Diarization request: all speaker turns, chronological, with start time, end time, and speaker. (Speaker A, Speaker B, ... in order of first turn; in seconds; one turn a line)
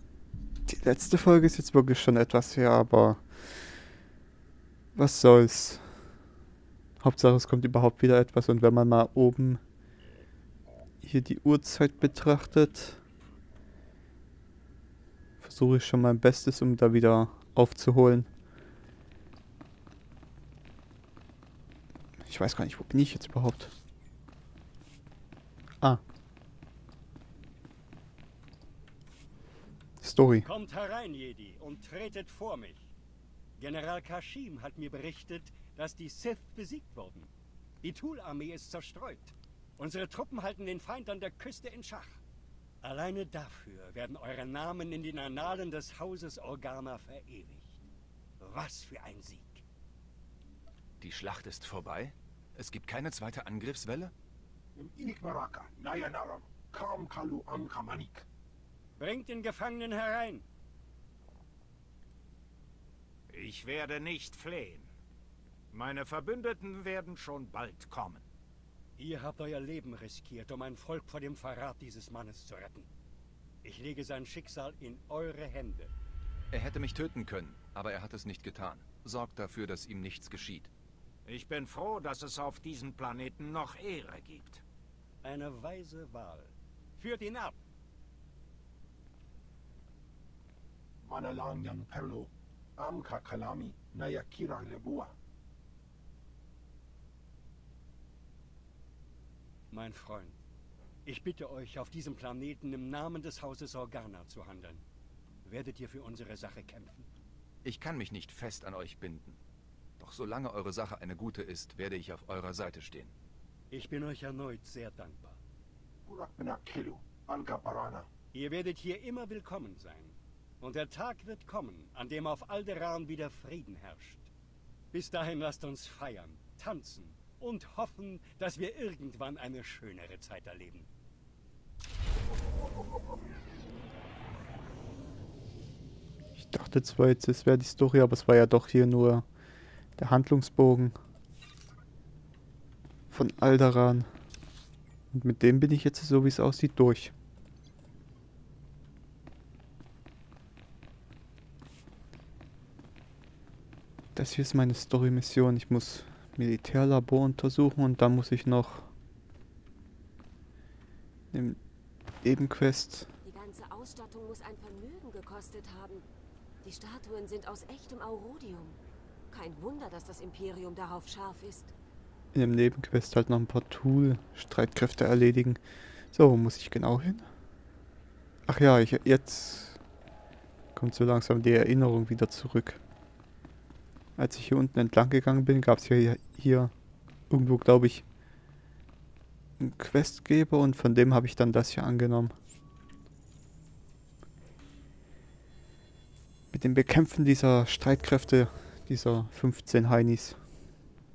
Speaker A: 0.7-3.8
Speaker A: 4.9-6.1
Speaker A: 7.0-9.6
Speaker A: 11.0-13.0
Speaker A: 15.4-18.3
Speaker A: 22.2-23.7
Speaker A: 30.0-30.5
Speaker B: 30.5-32.9
Speaker B: 33.6-37.3
Speaker B: 37.8-42.2
Speaker B: 42.8-47.8
Speaker B: 48.4-49.6
Speaker C: 51.0-54.1
Speaker D: 54.7-58.2
Speaker B: 59.0-60.4
Speaker E: 63.3-64.9
Speaker E: 65.7-68.2
Speaker B: 69.0-72.9
Speaker B: 73.6-75.9
Speaker C: 76.5-80.7
Speaker E: 81.3-84.6
Speaker B: 85.2-87.6
Speaker D: 91.0-95.1
Speaker B: 99.7-100.4
Speaker B: 101.0-104.8
Speaker B: 105.4-107.1
Speaker C: 107.6-109.4
Speaker C: 110.0-113.1
Speaker B: 113.7-115.4
Speaker D: 116.0-118.1
Speaker B: 118.3-124.3
Speaker B: 124.9-130.9
Speaker A: 136.4-139.2
Speaker A: 140.0-141.0
Speaker A: 143.1-144.1
Speaker A: 145.1-147.1
Speaker A: 154.1-158.9
Speaker A: 161.3-161.6
Speaker A: 162.2-163.1
Speaker F: 163.3-166.0
Speaker F: 166.6-168.6
Speaker F: 169.3-171.7
Speaker A: 172.3-175.6
Speaker A: 176.1-177.3
Speaker A: 178.5-179.8
Speaker A: 180.8-182.8
Speaker A: 184.2-186.7
Speaker A: 187.3-188.0
Speaker A: 189.6-192.3
Speaker A: 196.5-200.4